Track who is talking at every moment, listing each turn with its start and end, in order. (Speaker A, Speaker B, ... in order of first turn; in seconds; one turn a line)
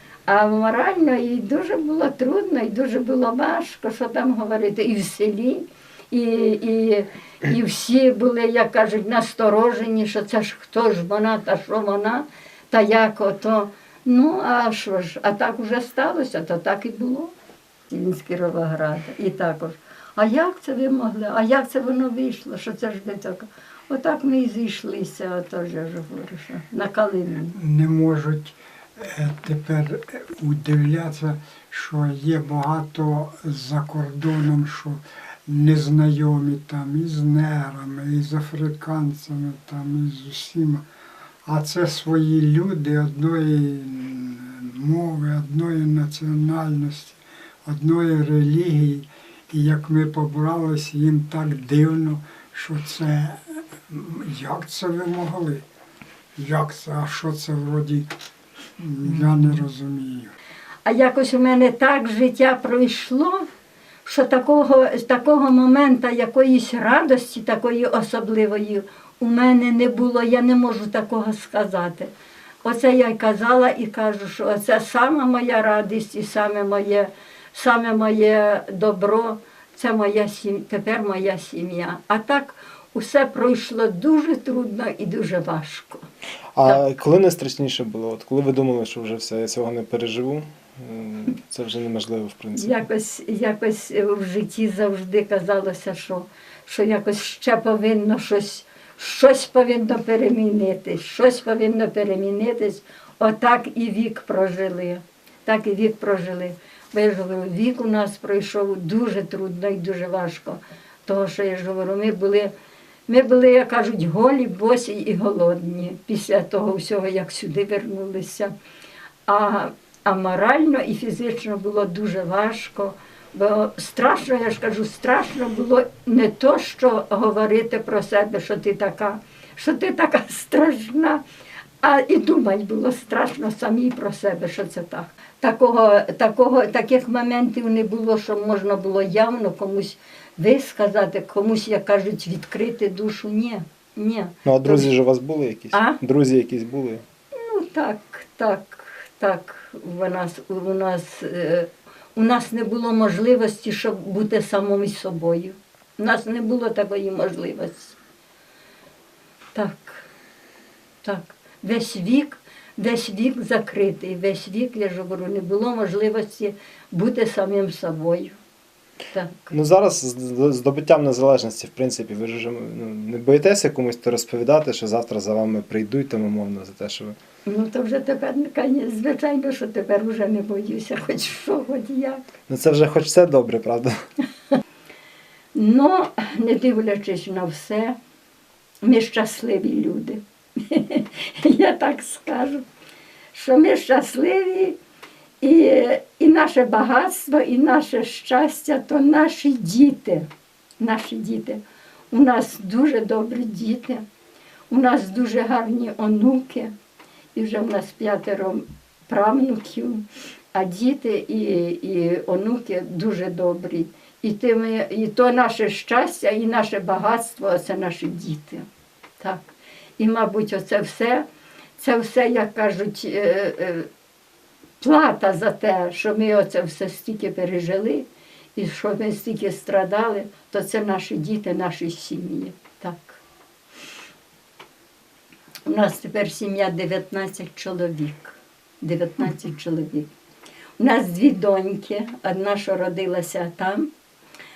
Speaker A: 0.3-17.3
Speaker A: 17.9-27.6
Speaker B: 27.5-40.9
Speaker B: 41.5-55.6
Speaker B: 56.4-58.1
Speaker B: 58.8-60.3
Speaker A: 60.9-63.5
Speaker A: 64.0-72.1
Speaker A: 72.6-86.0
Speaker C: 86.6-92.8
Speaker A: 92.5-112.5
Speaker A: 113.1-118.5
Speaker A: 119.3-131.2
Speaker A: 131.8-144.9
Speaker C: 144.4-147.0
Speaker A: 145.7-146.0
Speaker A: 147.3-158.0
Speaker A: 159.5-160.1
Speaker A: 161.0-168.4
Speaker A: 169.1-169.6
Speaker C: 169.5-177.2
Speaker A: 177.5-182.2
Speaker C: 182.5-183.9
Speaker A: 185.5-188.0
Speaker A: 188.8-192.7
Speaker A: 193.3-194.8
Speaker A: 195.4-200.3
Speaker A: 200.8-204.1
Speaker A: 204.7-206.7
Speaker A: 207.3-218.7
Speaker A: 219.2-219.5
Speaker A: 220.0-221.2
Speaker A: 221.8-223.9
Speaker A: 224.8-233.2
Speaker A: 235.7-240.1
Speaker A: 240.8-243.9